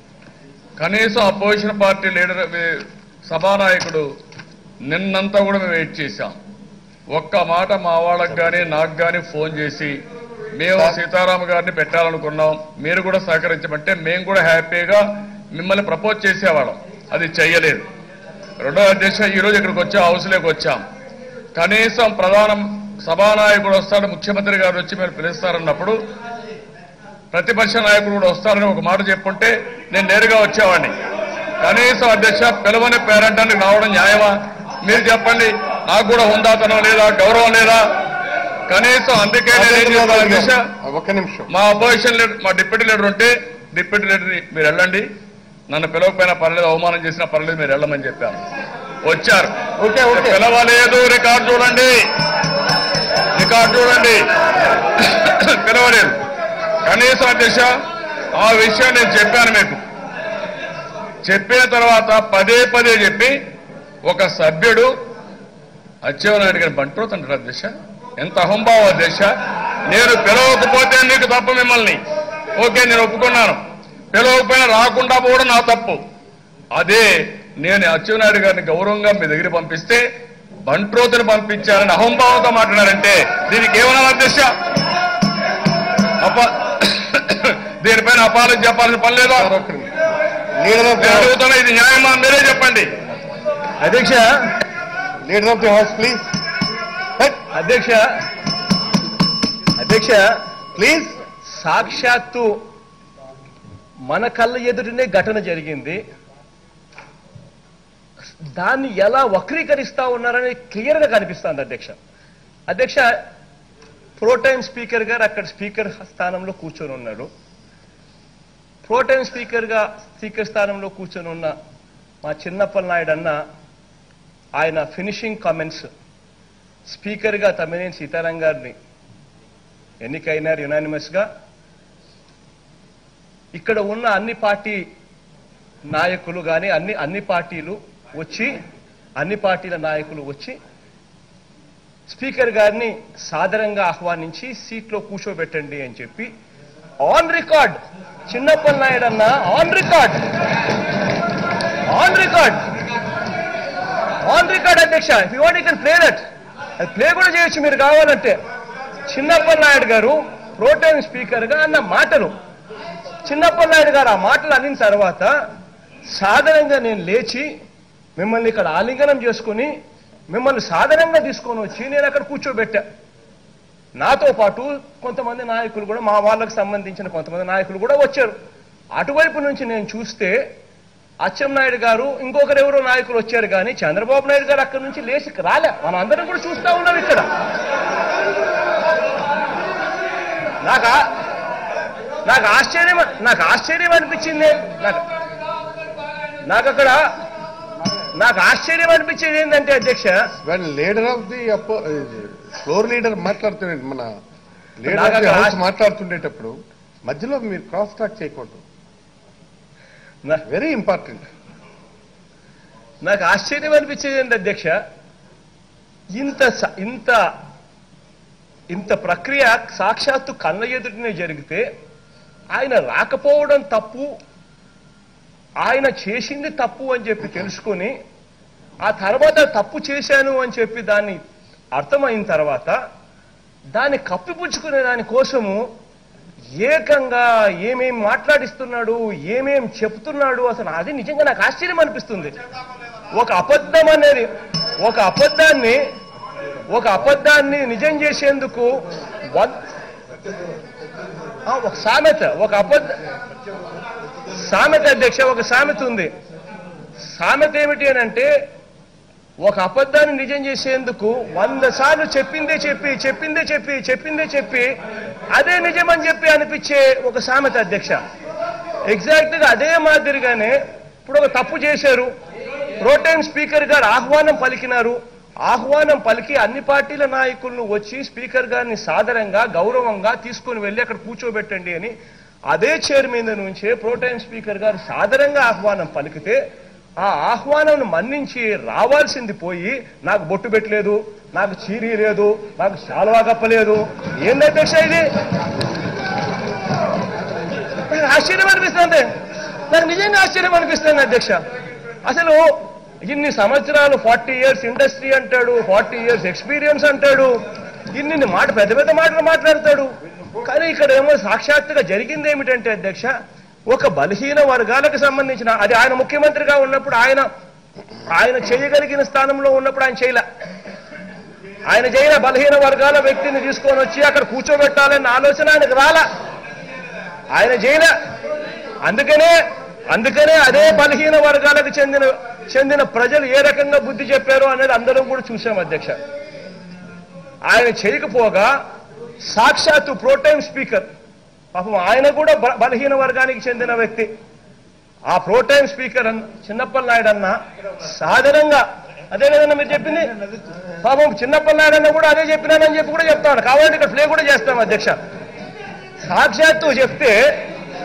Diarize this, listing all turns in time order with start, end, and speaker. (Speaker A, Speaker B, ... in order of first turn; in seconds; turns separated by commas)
Speaker A: 0.8-4.0, Speaker A: 4.9-6.4, Speaker A: 7.1-10.0, Speaker A: 10.6-17.9, Speaker A: 18.6-20.8, Speaker A: 21.5-26.0, Speaker A: 27.3-30.9, Speaker A: 31.6-37.9, Speaker A: 38.7-40.6, Speaker B: 39.5-41.5, Speaker A: 41.5-45.0, Speaker A: 45.7-48.4, Speaker A: 49.0-49.5, Speaker B: 49.8-50.4, Speaker A: 50.1-52.0, Speaker A: 53.4-54.2, Speaker A: 55.0-56.2, Speaker A: 56.8-57.7, Speaker A: 58.4-59.8, Speaker A: 61.2-63.3, Speaker A: 64.0-64.9, Speaker A: 66.0-69.3, Speaker A: 69.9-72.0, Speaker A: 72.6-73.6, Speaker A: 74.1-76.0, Speaker A: 76.7-80.0, Speaker A: 80.7-84.5, Speaker A: 86.2-89.5, Speaker B: 89.3-89.9, Speaker B: 90.6-91.3, Speaker A: 91.0-92.9, Speaker C: 93.8-94.5, Speaker B: 95.3-96.2, Speaker C: 97.5-98.0, Speaker C: 99.8-100.3, Speaker B: 100.8-101.1, Speaker C: 101.5-102.6, Speaker C: 104.1-106.0, Speaker C: 108.6-112.0, Speaker C: 112.7-113.2, Speaker C: 114.2-117.3, Speaker C: 118.8-121.5, Speaker C: 122.2-123.4, Speaker C: 124.6-125.9, Speaker C: 126.9-128.7, Speaker C: 130.0-131.2, Speaker C: 133.5-134.8, Speaker C: 135.9-138.5, Speaker C: 139.2-140.6, Speaker C: 142.1-146.3, Speaker C: 147.0-150.2, Speaker C: 151.9-152.6, Speaker C: 154.2-156.2, Speaker C: 156.8-158.4, Speaker C: 159.1-162.3, Speaker C: 163.2-165.3, Speaker C: 166.1-167.5, Speaker C: 168.2-169.7, Speaker C: 170.3-172.8, Speaker C: 174.0-178.3, Speaker C: 178.9-180.4, Speaker C: 181.2-187.3, Speaker C: 190.6-191.0, Speaker C: 192.2-195.0, Speaker C: 196.5-197.0, Speaker C: 198.2-200.2, Speaker B: 200.4-204.1, Speaker B: 204.8-206.6, Speaker C: 204.9-205.6, Speaker B: 207.1-208.6, Speaker B: 210.5-211.2, Speaker C: 213.0-214.8, Speaker C: 216.1-217.2, Speaker C: 218.7-221.6, Speaker C: 222.5-224.1, Speaker C: 225.6-227.9, Speaker C: 228.8-231.2, Speaker C: 231.7-232.8, Speaker C: 233.7-235.6, Speaker C: 236.6-242.3, Speaker C: 243.2-244.3, Speaker C: 244.8-245.8, Speaker C: 246.7-248.7, Speaker C: 249.3-249.6, Speaker C: 251.5-252.9, Speaker C: 254.3-256.1, Speaker C: 257.1-258.3, Speaker C: 259.4-264.7, Speaker C: 265.3-268.0, Speaker C: 268.9-272.1, Speaker C: 272.8-281.9, Speaker C: 282.5-286.4, Speaker C: 287.0-295.1, Speaker C: 297.9-299.1, Speaker C: 299.7-301.4, Speaker C: 302.0-302.4, Speaker C: 303.0-307.4, Speaker C: 307.9-309.9, Speaker C: 310.4-313.1, Speaker C: 313.7-317.3, Speaker C: 318.1-320.2, Speaker C: 321.7-326.1, Speaker C: 327.3-327.9, Speaker C: 328.9-329.4, Speaker C: 329.9-336.0, Speaker C: 337.5-338.5, Speaker C: 339.3-340.9, Speaker C: 341.5-344.1, Speaker C: 345.1-350.1, Speaker C: 350.8-355.0, Speaker C: 356.0-357.4